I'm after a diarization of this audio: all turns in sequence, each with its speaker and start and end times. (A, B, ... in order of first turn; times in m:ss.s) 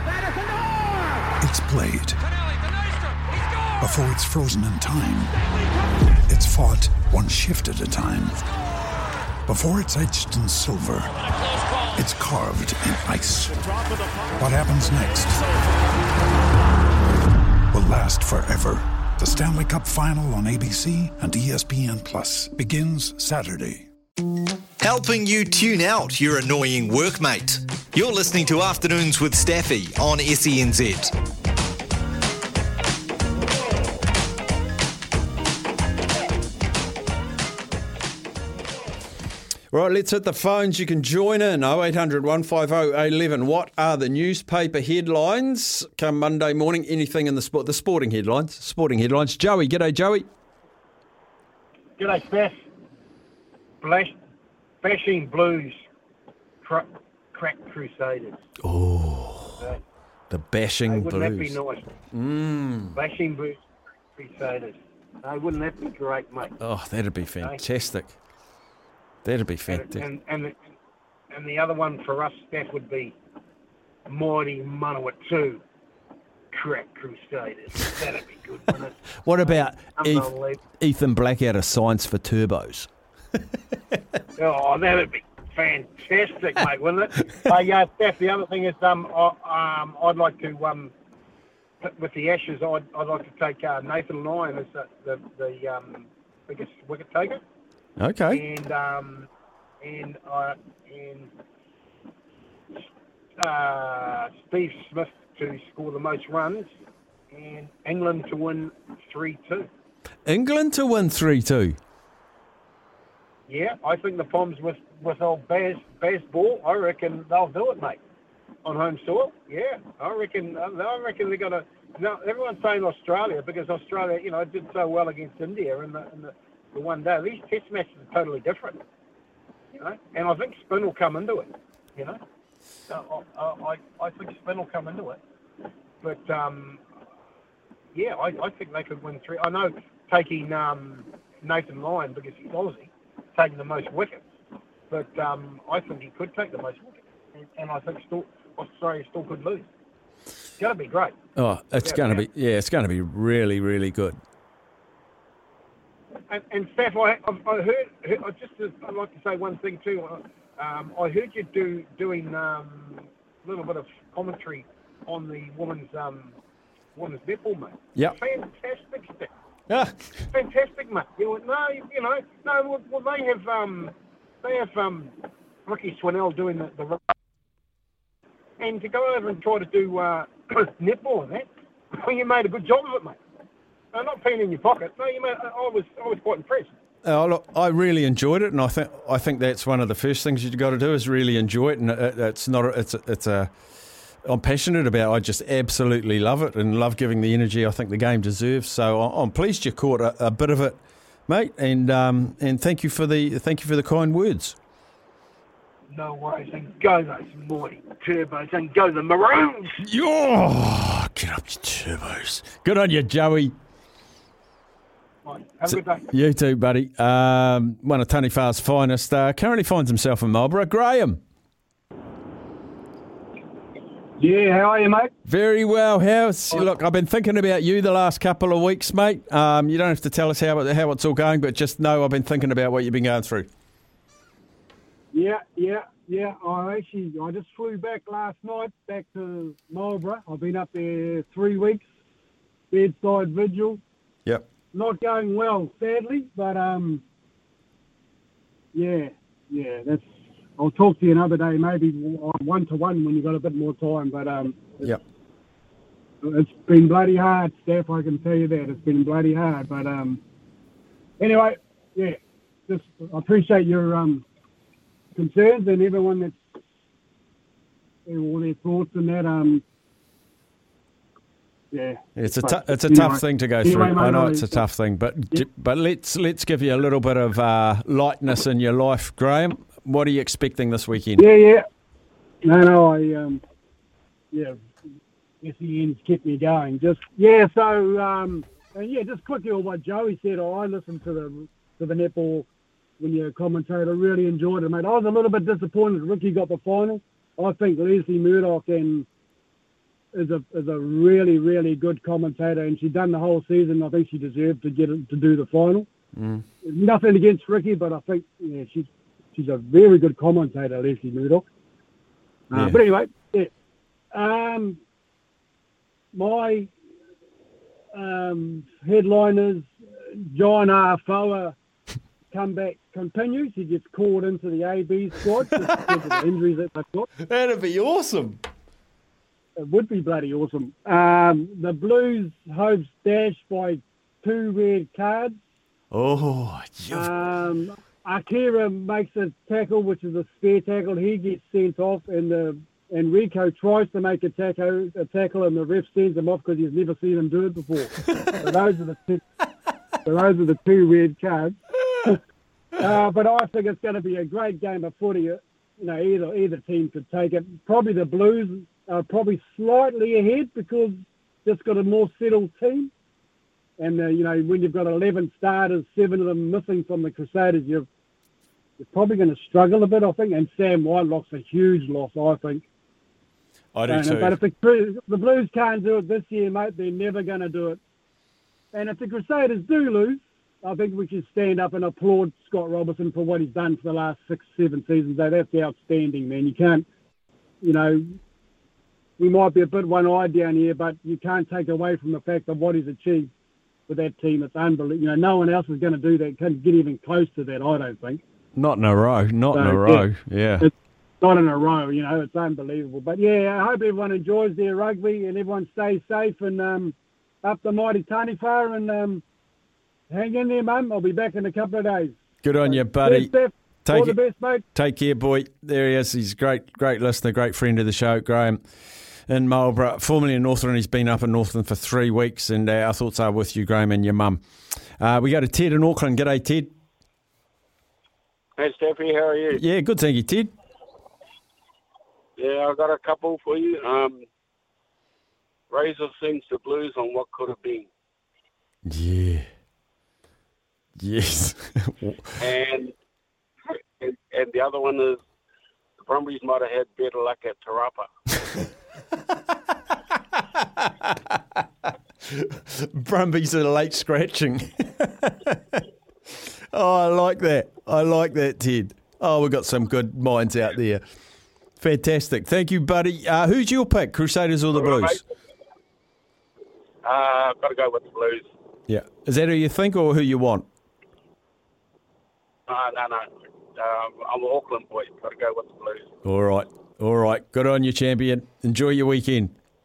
0:01.4-0:02.2 A
0:03.8-0:05.5 A
0:06.2-0:08.4 A
0:09.4-0:11.2 A
0:11.9-0:13.7 A
0:14.4-0:15.4 A
0:17.7-0:23.9 A
0:24.8-0:31.1 B
0:39.7-0:50.3 C
0:52.0-0:52.6 D
0:53.8-0:54.1 D
0:54.8-0:55.8 D
0:56.6-0:58.4 D
0:58.6-0:59.6 C
1:00.3-1:01.6 C
1:00.8-1:01.9 D
1:02.1-1:03.0 C
1:02.9-1:03.6 D
1:04.2-1:06.5 D
1:06.6-1:08.1 C
1:09.2-1:10.0 C
1:09.7-1:10.6 D
1:11.3-1:13.2 D
1:14.1-1:15.6 D
1:16.5-1:20.6 D
1:19.2-1:22.9 C
1:24.4-1:30.9 D
1:31.8-1:37.4 D
1:38.0-1:38.4 C
1:38.3-1:39.3 D
1:39.8-1:41.3 D
1:43.4-1:46.7 D
1:47.3-1:49.7 D
1:50.2-1:51.8 C
1:53.5-1:58.0 D
1:58.6-2:08.8 D
2:09.8-2:12.2 D
2:12.9-2:15.2 D
2:16.0-2:16.8 D
2:17.9-2:24.2 D
2:24.9-2:29.7 D
2:30.6-2:31.1 D
2:31.4-2:34.2 C
2:31.8-2:32.2 D
2:36.3-2:46.3 D
2:47.0-2:49.3 D
2:49.7-2:50.0 C
2:50.3-2:55.1 D
2:55.6-2:57.0 D
2:58.6-3:03.2 D
3:03.9-3:06.7 D
3:07.0-3:13.5 C
3:14.2-3:24.5 C
3:25.9-3:29.8 D
3:29.8-3:33.5 C
3:35.2-3:36.0 D
3:35.7-3:41.2 C
3:44.2-3:45.1 E
3:45.2-3:53.5 C
3:55.1-4:01.8 E
4:02.7-4:03.8 E
4:04.7-4:07.0 E
4:08.7-4:10.0 E
4:10.6-4:14.9 E
4:16.2-4:20.2 E
4:21.2-4:24.2 E
4:25.1-4:26.4 E
4:28.0-4:29.6 E
4:31.7-4:34.6 E
4:32.2-4:41.2 C
4:41.2-4:41.6 E
4:42.4-4:43.4 E
4:44.3-4:44.6 E
4:45.4-4:52.5 E
4:53.0-4:59.1 E
5:00.1-5:05.9 E
5:06.1-5:06.4 C
5:06.6-5:11.4 E
5:12.5-5:13.5 E
5:12.5-5:12.8 C
5:14.1-5:14.8 E
5:16.1-5:16.7 E
5:17.9-5:21.6 E
5:22.3-5:27.1 E
5:27.2-5:28.4 C
5:29.6-5:35.4 E
5:35.9-5:37.1 C
5:36.9-5:49.2 E
5:50.0-5:52.2 E
5:52.8-6:02.9 E
6:03.8-6:07.9 E
6:08.8-6:12.6 E
6:13.7-6:14.4 C
6:13.9-6:17.8 E
6:18.7-6:26.8 E
6:27.6-6:28.2 E
6:29.2-6:33.3 E
6:33.9-6:38.2 E
6:38.5-6:40.7 C
6:39.5-6:40.0 E
6:40.6-6:49.2 E
6:50.1-6:54.6 E
6:52.4-6:53.3 C
6:53.9-6:54.2 C
6:54.7-6:58.6 C
6:59.3-7:04.4 C
7:05.0-7:06.7 C
7:08.6-7:09.6 F
7:09.5-7:10.5 C
7:12.4-7:14.2 F
7:15.7-7:17.9 F
7:18.8-7:19.5 C
7:21.0-7:22.4 C
7:22.4-7:22.9 F
7:24.0-7:25.2 F
7:26.0-7:28.1 F
7:32.4-7:35.8 C
7:36.7-7:41.0 C
7:41.8-7:45.2 C
7:44.8-7:45.2 F
7:47.0-7:48.5 F
7:48.9-7:50.6 C
7:52.7-7:56.1 F
7:56.2-7:59.5 C